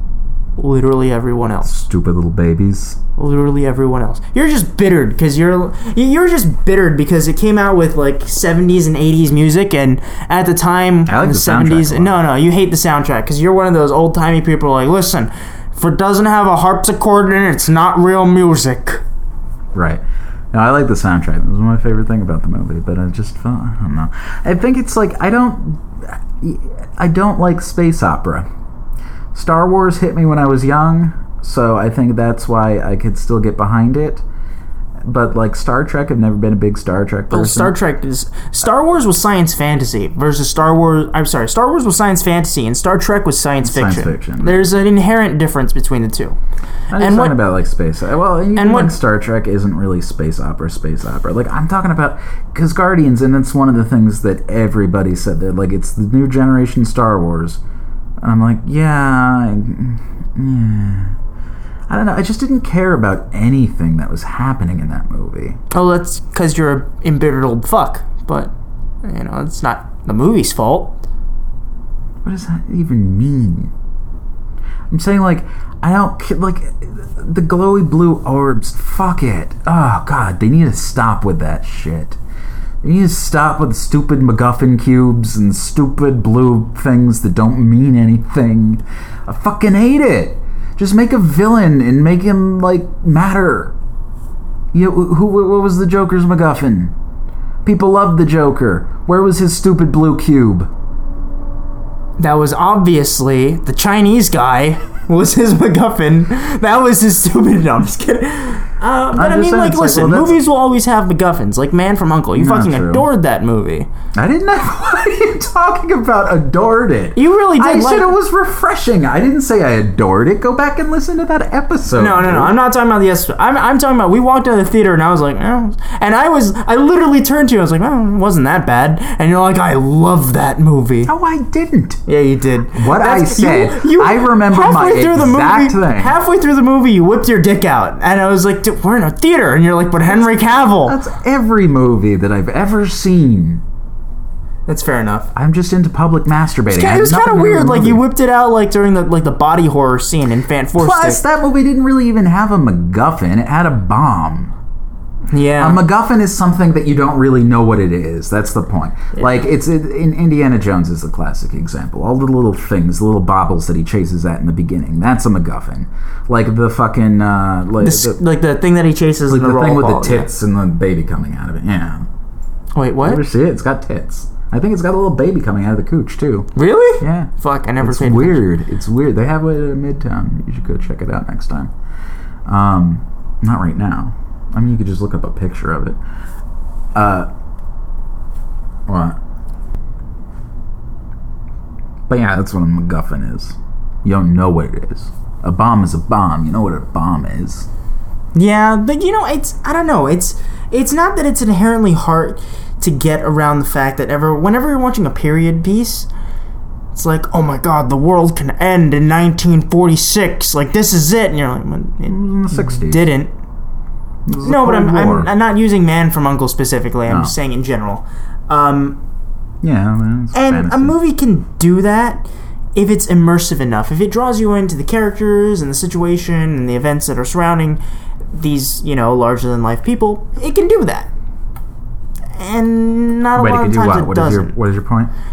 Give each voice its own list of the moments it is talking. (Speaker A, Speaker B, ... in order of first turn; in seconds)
Speaker A: 0.6-1.8, 3.2-19.0, 37.3-46.4, 47.0-47.4, 48.6-48.9, 65.7-71.0, 102.2-113.9, 117.2-118.1, 122.0-131.1, 132.1-141.0, 144.7-145.3, 146.7-151.2, 155.3-155.8, 167.8-170.3, 172.8-173.2, 176.6-178.4, 198.3-206.1, 206.9-213.3, 214.4-219.0, 220.3-227.8, 228.3-231.1, 232.4-234.5
Speaker B: 1.6-3.0, 11.1-12.2, 19.7-28.5, 29.3-34.2, 35.0-37.8, 43.6-44.6, 46.9-57.6, 58.2-61.2, 61.9-65.6, 72.2-73.7, 74.9-82.2, 82.8-93.8, 94.7-96.9, 97.6-100.7, 109.1-110.4, 112.3-113.1, 114.2-122.6, 131.1-132.0, 132.7-136.2, 140.1-143.6, 145.3-148.0, 150.8-154.5, 155.6-168.2, 169.3-172.1, 173.0-181.7, 182.5-186.0, 186.9-187.3, 188.9-189.2, 192.1-197.7, 212.1-213.1, 214.3-215.3, 217.1-217.3, 219.6-221.0, 233.4-235.1